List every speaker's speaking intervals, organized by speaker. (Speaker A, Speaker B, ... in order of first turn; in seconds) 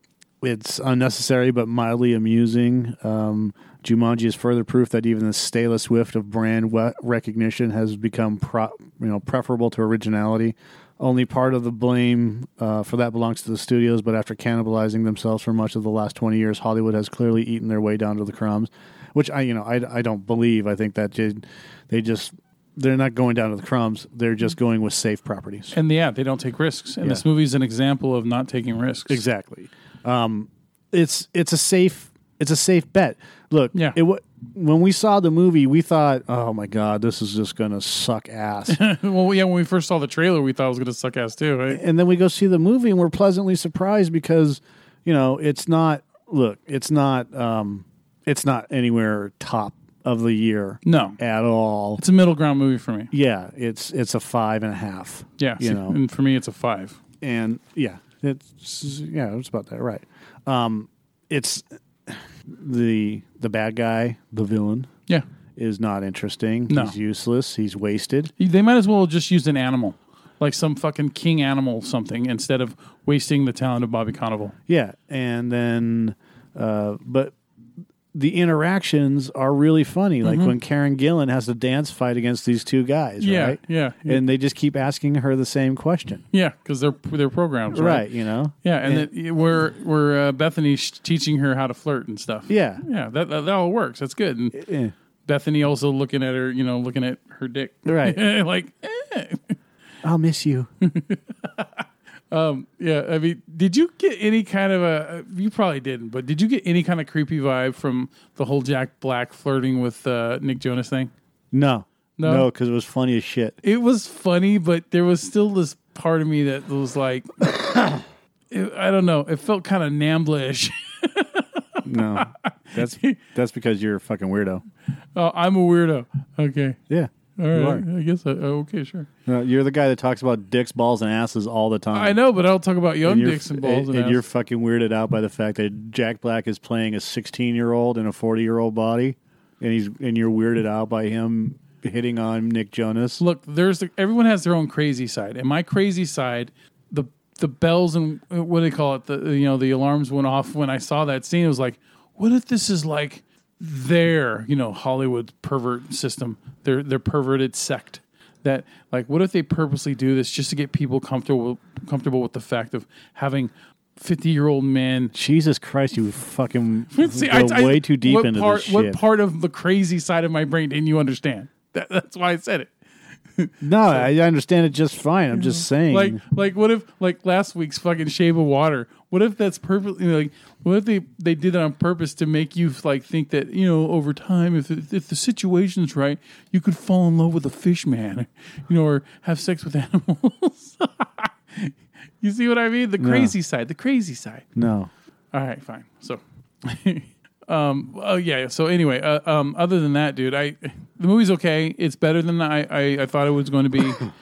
Speaker A: 0.4-25.7, 29.1-38.8, 41.7-52.0, 53.1-56.0, 57.2-64.9, 65.5-68.3, 74.7-77.3, 78.1-86.2, 87.7-89.1, 92.5-92.8, 94.5-94.9, 97.8-98.2, 100.0-100.7, 111.5-113.6, 121.8-124.6, 126.9-127.8, 129.2-132.2, 133.0-143.2, 165.1-169.0, 173.6-176.2, 193.0-193.3, 194.5-194.9
Speaker B: 25.7-29.2, 38.7-41.8, 50.8-51.2, 52.0-53.1, 55.4-57.0, 66.7-66.9, 68.4-74.5, 80.2-80.5, 83.2-84.2, 86.3-88.0, 88.6-94.6, 95.2-99.6, 100.8-111.1, 112.2-112.5, 113.6-117.4, 118.5-123.2, 125.1-126.8, 127.4-129.1, 131.9-134.2, 143.2-165.1, 166.9-172.7, 173.4-174.1, 175.3-194.4, 195.3-204.1